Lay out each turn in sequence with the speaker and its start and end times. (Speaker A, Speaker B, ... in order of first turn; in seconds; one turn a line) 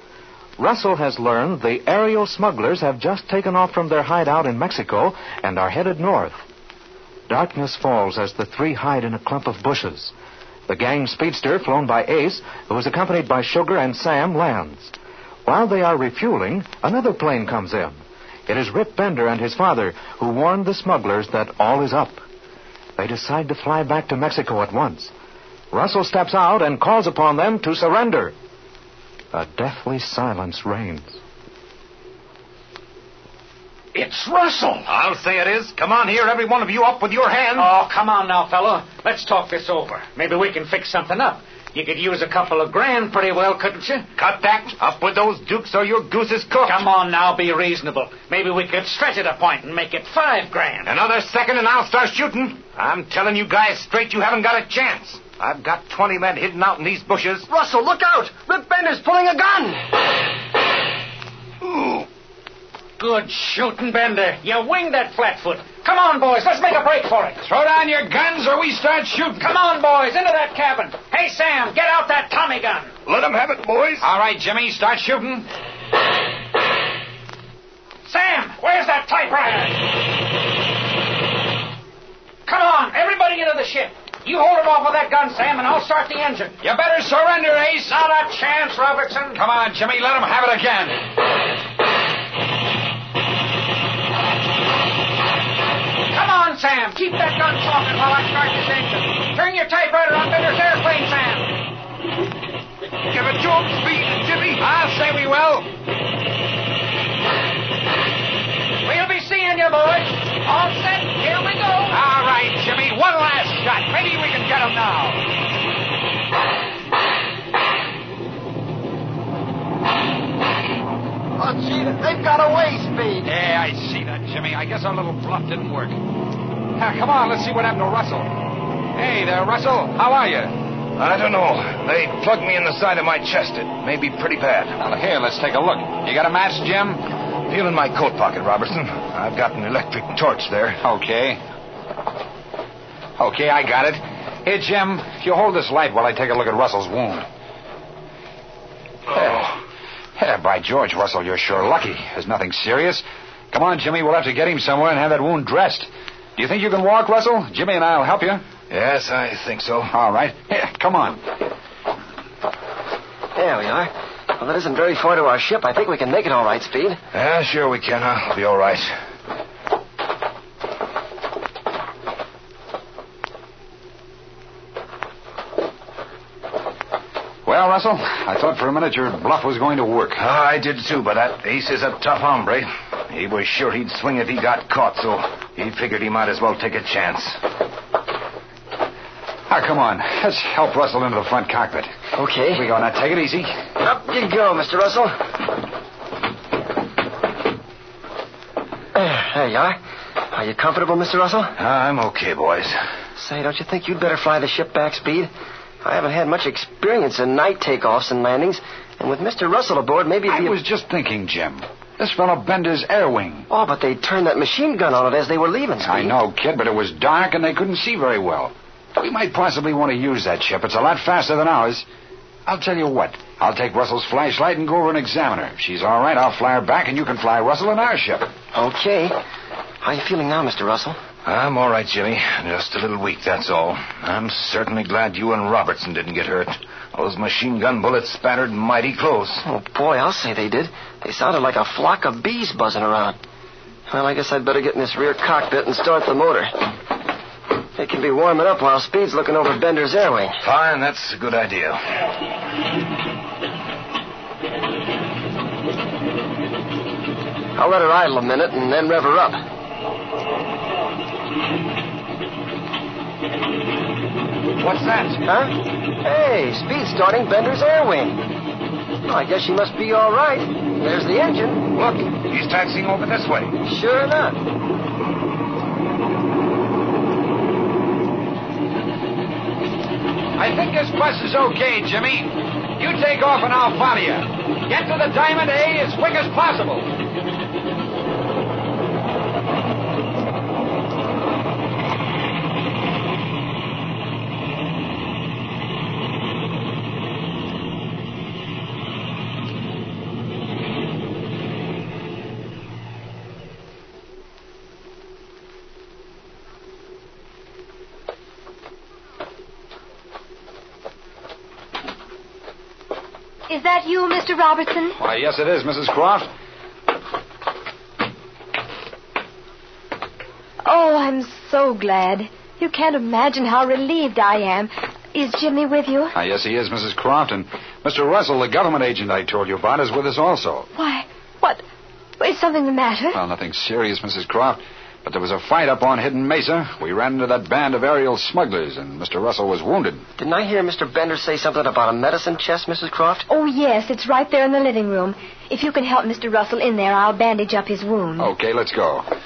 Speaker A: 0.6-6.4
Speaker A: 7.3-10.1
Speaker A: 10.7-14.9
Speaker A: 15.4-22.2
Speaker A: 23.0-25.1
Speaker A: 25.7-28.3
Speaker A: 29.3-31.2
Speaker B: 34.0-37.7
Speaker C: 34.2-34.8
Speaker C: 37.5-44.1
Speaker B: 44.2-46.8
Speaker C: 46.7-50.9
Speaker B: 50.8-57.5
Speaker D: 57.5-59.9
Speaker B: 61.6-62.0
Speaker C: 63.0-67.4
Speaker E: 67.4-69.5
Speaker C: 69.4-72.9
Speaker B: 73.0-74.0
Speaker E: 74.0-75.5
Speaker C: 78.1-79.8
Speaker C: 82.5-86.6
Speaker E: 86.6-88.0
Speaker C: 87.8-89.4
Speaker E: 89.3-91.0
Speaker C: 96.1-101.5
Speaker B: 103.1-104.6
Speaker E: 104.6-105.7
Speaker C: 108.8-112.0
Speaker E: 111.9-115.2
Speaker B: 121.4-123.2
Speaker E: 123.2-126.0
Speaker E: 126.8-128.3
Speaker E: 128.9-130.6
Speaker B: 130.9-134.8
Speaker E: 134.8-137.1
Speaker B: 137.4-140.8
Speaker E: 140.8-141.4
Speaker E: 143.2-147.2
Speaker E: 149.1-149.5
Speaker E: 150.2-158.4
Speaker B: 158.7-159.9
Speaker E: 159.9-161.2
Speaker D: 163.3-167.0
Speaker B: 167.1-168.9
Speaker E: 177.4-180.2
Speaker B: 180.2-187.4
Speaker E: 189.5-191.9
Speaker D: 192.2-192.7
Speaker E: 192.5-193.6
Speaker D: 193.8-195.2
Speaker D: 198.9-201.5
Speaker B: 201.6-202.8
Speaker D: 203.2-205.3
Speaker D: 205.8-210.6
Speaker E: 210.3-213.5
Speaker D: 213.5-216.2
Speaker E: 215.8-221.8
Speaker E: 222.4-228.3
Speaker D: 228.5-229.2
Speaker D: 229.8-231.0
Speaker B: 231.2-239.4
Speaker D: 239.4-243.2
Speaker D: 243.9-246.7
Speaker D: 247.8-250.4
Speaker B: 250.4-251.9
Speaker D: 257.6-259.4
Speaker E: 264.6-265.2
Speaker D: 265.2-268.3
Speaker D: 269.0-271.7
Speaker B: 271.8-273.6
Speaker D: 273.6-274.4
Speaker E: 280.4-286.9
Speaker F: 313.5-315.0
Speaker E: 315.0-316.3
Speaker F: 320.6-326.1
Speaker E: 326.1-330.7
Speaker F: 330.8-331.6
Speaker F: 332.2-333.2
Speaker E: 333.1-340.0
Speaker D: 340.2-343.2
Speaker F: 343.3-348.3
Speaker E: 348.2-349.1